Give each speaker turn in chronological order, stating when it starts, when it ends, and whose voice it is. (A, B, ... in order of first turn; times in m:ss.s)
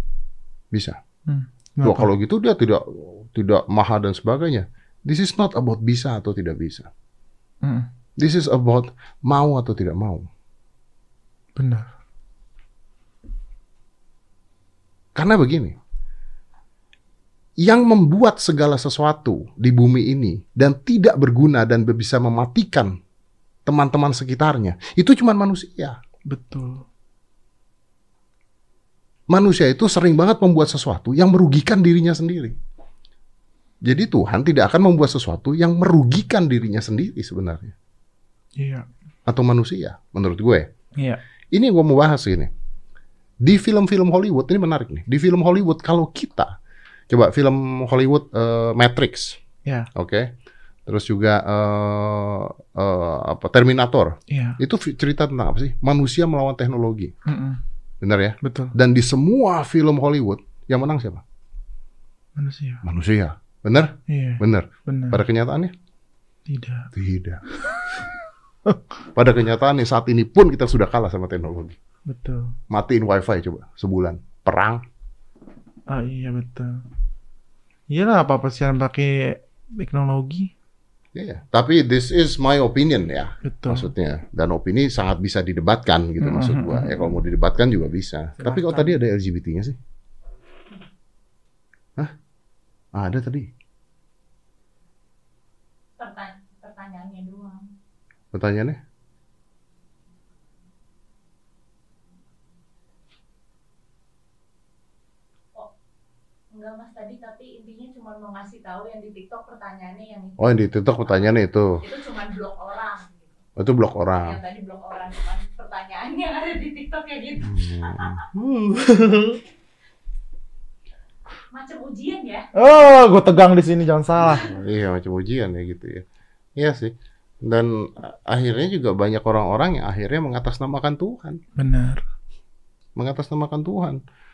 0:00.7-0:01.0 A
0:01.3-0:02.1 B
0:01.8-0:06.9 A
0:07.6-0:07.9 B
0:08.2-0:10.3 A
0:11.6-0:11.9 B
0:15.2-0:15.8 A
0:17.6-0:23.0 A
0:23.6-0:26.0 A
0:26.3-0:26.8 B
0:29.3-0:32.6 A
0:33.8-0:37.7 A
0:38.6-0:38.9 B
0:39.3-0:40.7 A
0:41.5-0:42.5 A
0:43.4-0:46.5 A
0:47.1-0:49.4 A
0:49.9-0:50.3 A
0:50.9-0:57.1 A
0:54.3-0:54.6 B
0:57.2-0:57.6 B
0:58.0-1:01.2 A
0:58.4-0:58.7 B
1:02.4-1:02.8 B
1:02.8-1:05.7 A
1:04.1-1:05.2 B
1:06.4-1:06.9 B
1:06.9-1:07.4 A
1:09.1-1:11.8 A
1:12.1-1:12.5 B
1:12.7-1:14.8 A
1:15.9-1:16.8 B
1:17.9-1:20.5 B
1:21.1-1:29.8 A
1:23.4-1:23.9 B
1:26.2-1:27.2 B
1:28.4-1:28.9 B
1:32.9-1:33.5 A
1:36.0-1:37.7 C
1:38.3-1:38.8 A
1:46.5-1:51.3 C
1:50.4-1:51.8 A
1:51.8-1:53.4 C
1:53.6-1:54.4 A
1:54.2-1:58.2 C
1:57.4-1:58.2 A
1:58.3-1:59.4 B
2:01.5-2:02.5 C
2:02.5-2:04.5 B
2:04.2-2:06.1 A
2:06.6-2:11.4 A
2:11.6-2:12.0 B
2:13.0-2:14.0 A